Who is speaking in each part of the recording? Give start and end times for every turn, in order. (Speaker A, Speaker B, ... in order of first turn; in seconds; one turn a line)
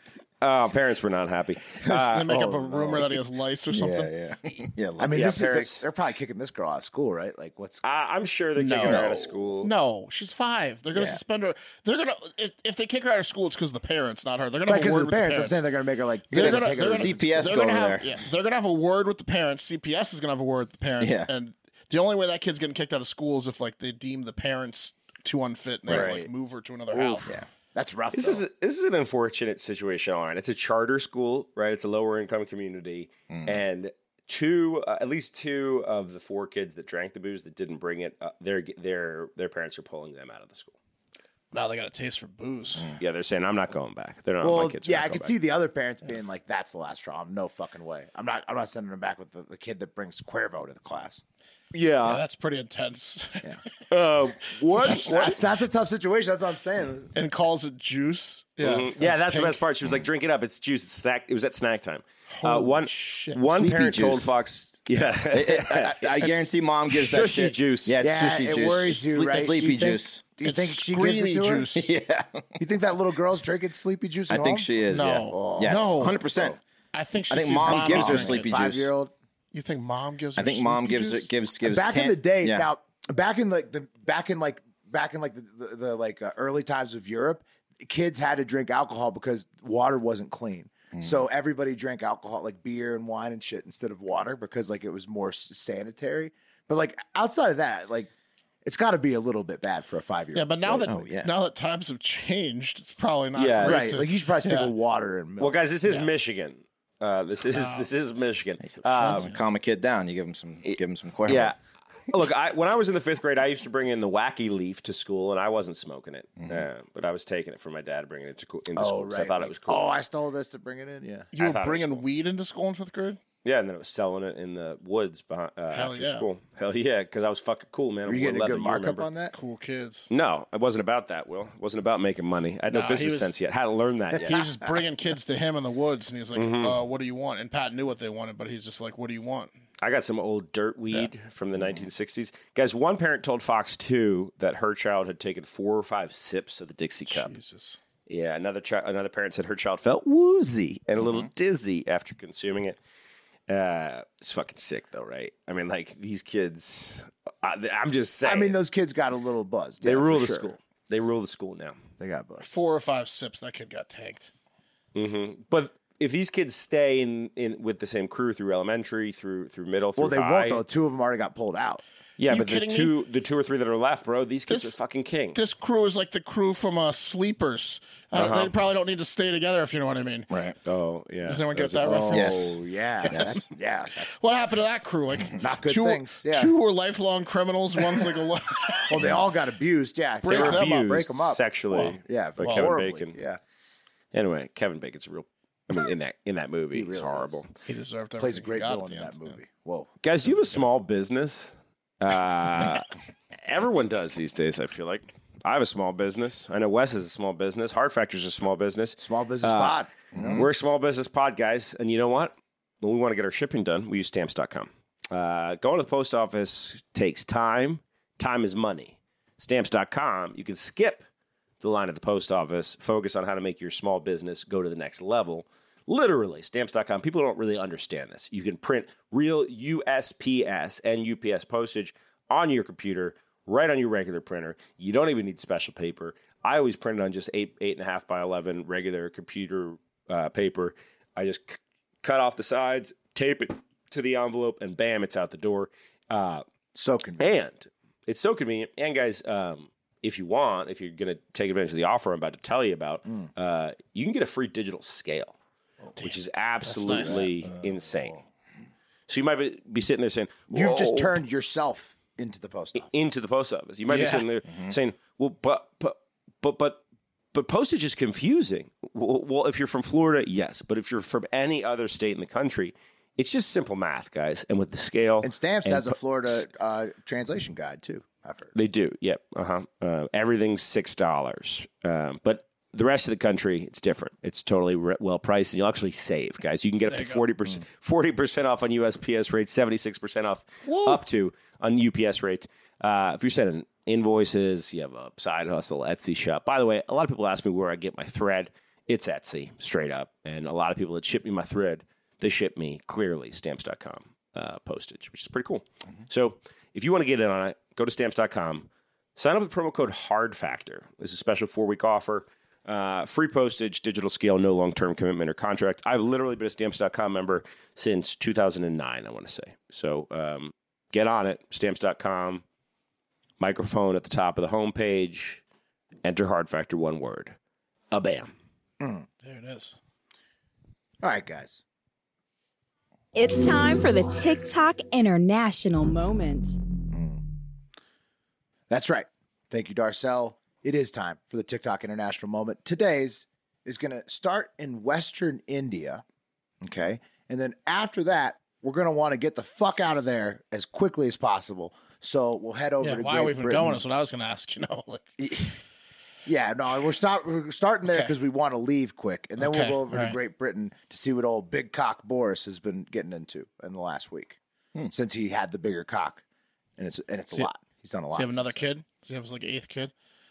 Speaker A: 0.4-2.5
Speaker B: 1.8-4.1
Speaker C: 2.3-3.0
Speaker D: 3.7-5.6
Speaker C: 5.0-7.8
Speaker A: 5.1-5.8
Speaker A: 7.8-9.7
Speaker B: 8.6-9.0
Speaker D: 8.9-9.2
Speaker B: 9.6-15.6
Speaker D: 10.9-11.2
Speaker C: 14.7-17.5
Speaker B: 16.3-27.3
Speaker D: 16.3-18.2
Speaker D: 21.0-21.3
Speaker D: 25.9-26.2
Speaker A: 25.9-26.1
Speaker C: 27.3-28.4
Speaker A: 28.1-40.7
Speaker D: 33.3-33.6
Speaker B: 41.5-42.9
Speaker A: 43.0-45.4
Speaker C: 44.4-51.2
Speaker A: 51.7-52.2
Speaker B: 52.0-53.5
Speaker A: 53.9-55.4
Speaker C: 54.7-57.1
Speaker B: 54.8-55.3
Speaker B: 57.1-59.6
Speaker A: 58.6-68.0
Speaker B: 62.3-63.4
Speaker D: 63.5-64.3
Speaker D: 65.3-70.2
Speaker C: 68.0-71.7
Speaker B: 70.4-71.9
Speaker D: 71.7-72.6
Speaker C: 72.6-74.7
Speaker D: 74.3-76.6
Speaker B: 74.9-76.2
Speaker C: 75.2-75.9
Speaker B: 76.9-78.5
Speaker D: 77.3-78.9
Speaker C: 77.7-79.1
Speaker B: 79.5-81.3
Speaker D: 80.4-82.7
Speaker C: 81.6-98.1
Speaker D: 90.9-91.2
Speaker C: 98.7-100.9
Speaker B: 100.3-104.7
Speaker D: 100.7-101.3
Speaker A: 103.3-104.1
Speaker C: 103.6-105.6
Speaker A: 105.4-109.3
Speaker B: 107.5-107.9
Speaker D: 108.8-111.5
Speaker B: 109.0-109.4
Speaker A: 111.3-111.6
Speaker A: 112.1-120.0
Speaker D: 116.4-116.7
Speaker C: 118.8-121.3
Speaker B: 121.3-123.2
Speaker A: 121.4-122.0
Speaker A: 123.4-129.1
Speaker B: 125.7-126.3
Speaker C: 128.1-129.3
Speaker B: 129.3-130.1
Speaker A: 130.1-134.4
Speaker B: 132.7-133.3
Speaker B: 134.2-139.5
Speaker A: 136.3-136.8
Speaker A: 139.8-147.3
Speaker B: 147.1-147.8
Speaker A: 148.1-152.8
Speaker D: 151.0-151.3
Speaker A: 153.5-158.6
Speaker C: 158.2-160.5
Speaker A: 159.8-161.8
Speaker C: 162.0-162.5
Speaker B: 162.4-164.3
Speaker A: 164.9-170.6
Speaker C: 170.0-171.8
Speaker A: 172.2-175.4
Speaker B: 172.3-172.9
Speaker B: 174.5-174.8
Speaker B: 175.3-180.3
Speaker A: 178.1-178.5
Speaker D: 180.3-180.6
Speaker A: 180.7-182.3
Speaker B: 181.3-182.5
Speaker C: 181.8-184.2
Speaker D: 182.1-182.5
Speaker D: 183.1-183.5
Speaker B: 184.2-189.0
Speaker C: 185.3-186.5
Speaker C: 188.9-191.4
Speaker B: 190.2-190.9
Speaker A: 190.2-193.2
Speaker B: 191.7-192.7
Speaker C: 192.1-193.4
Speaker A: 194.1-197.5
Speaker C: 196.7-197.4
Speaker B: 197.7-199.4
Speaker C: 198.2-199.9
Speaker A: 200.0-202.9
Speaker A: 203.5-221.0
Speaker C: 209.0-210.4
Speaker D: 210.1-210.4
Speaker A: 221.6-246.4
Speaker C: 246.8-247.3
Speaker A: 247.2-255.3
Speaker B: 256.0-257.3
Speaker A: 256.0-258.2
Speaker A: 259.1-261.2
Speaker C: 260.5-262.9
Speaker A: 262.9-266.8
Speaker B: 263.9-264.3
Speaker A: 267.3-276.4
Speaker C: 275.2-278.5
Speaker A: 278.6-322.4
Speaker B: 286.9-287.2
Speaker B: 290.7-291.0
Speaker A: 323.4-325.4
Speaker A: 326.0-327.4
Speaker A: 327.9-328.3
Speaker C: 328.8-329.1
Speaker B: 329.2-329.8
Speaker C: 331.0-331.6
Speaker E: 333.1-336.6
Speaker C: 336.9-337.2
Speaker C: 338.7-346.0
Speaker C: 346.6-353.8
Speaker B: 352.8-355.0
Speaker C: 355.2-355.6
Speaker C: 356.2-364.4
Speaker B: 357.9-358.1
Speaker B: 359.4-360.2
Speaker C: 364.9-366.2
Speaker C: 366.8-368.7
Speaker B: 368.1-369.9